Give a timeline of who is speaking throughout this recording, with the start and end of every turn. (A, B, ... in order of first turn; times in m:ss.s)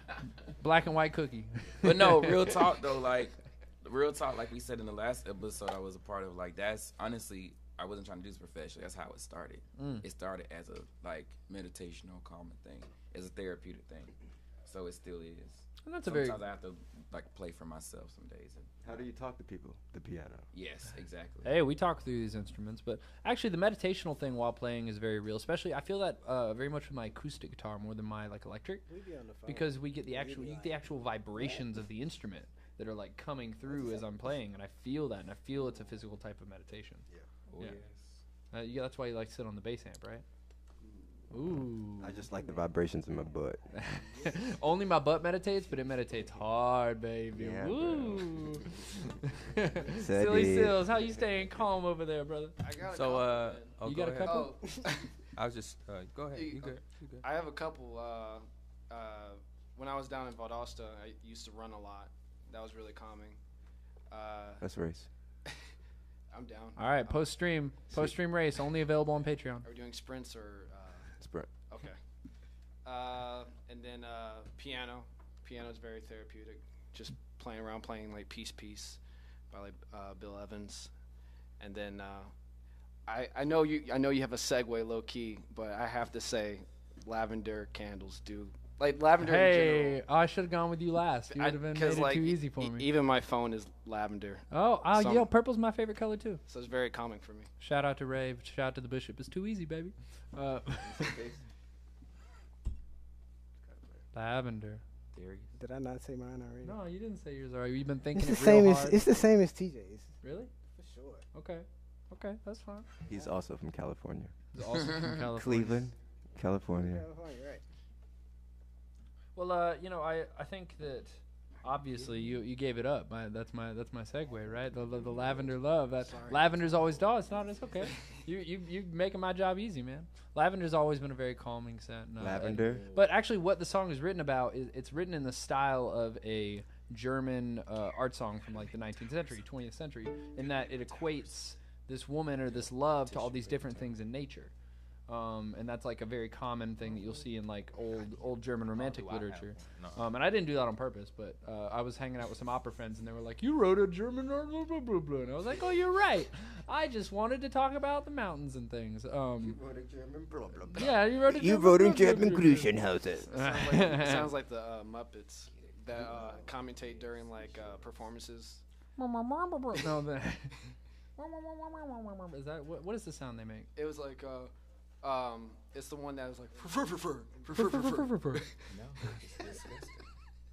0:00.6-0:02.5 A
0:01.8-0:18.9 B
0:09.8-0:10.0 A
0:15.8-0:16.4 A
0:18.8-0:20.4 C
0:20.5-0:21.6 B
0:21.4-0:28.9 A
0:28.9-0:31.7 D
0:29.4-0:37.0 A
0:33.7-0:34.0 D
0:37.5-0:38.2 B
0:38.5-0:40.2 A
0:41.3-0:42.3 A
0:42.0-0:43.6 C
0:43.7-0:52.6 A
0:47.3-0:48.6 C
0:49.9-0:51.0 C
0:52.6-0:55.1 E
0:52.9-0:54.6 F
0:53.8-0:54.6 A
0:55.4-0:57.2 F
0:56.3-1:03.4 E
1:04.1-1:04.6 E
1:04.6-1:05.1 C
1:06.3-1:07.2 E
1:06.8-1:09.6 A
1:09.6-1:11.1 E
1:11.2-1:11.5 C
1:11.7-1:12.0 E
1:12.8-1:19.0 E
1:19.5-1:20.9 E
1:21.6-1:22.3 E
1:23.0-1:30.0 E
1:29.2-1:32.9 A
1:31.3-1:35.3 E
1:34.5-1:36.4 A
1:36.5-1:37.5 E
1:37.6-1:41.2 A
1:40.8-1:41.4 C
1:43.7-1:44.0 C
1:44.1-1:44.8 A
1:45.1-1:45.6 B
1:45.5-1:46.8 D
1:46.6-1:49.0 A
1:48.1-1:50.2 D
1:50.2-1:50.5 A
1:50.7-1:51.2 D
1:51.3-1:52.9 A
1:53.1-1:54.3 C
1:54.5-1:55.9 A
1:55.0-1:57.0 C
1:56.8-1:57.6 D
1:59.3-2:24.5 A
2:06.0-2:06.5 E
2:12.2-2:12.9 C
2:25.1-2:39.6 A
2:28.7-2:30.0 F
2:39.4-2:43.3 C
2:40.7-2:42.7 A
2:43.2-2:48.6 E
2:43.3-2:44.3 A
2:45.6-2:47.8 B
2:45.9-2:46.5 C
2:49.0-2:53.7 A
2:53.8-2:58.6 E
2:57.5-2:58.5 A
2:58.7-3:00.0 B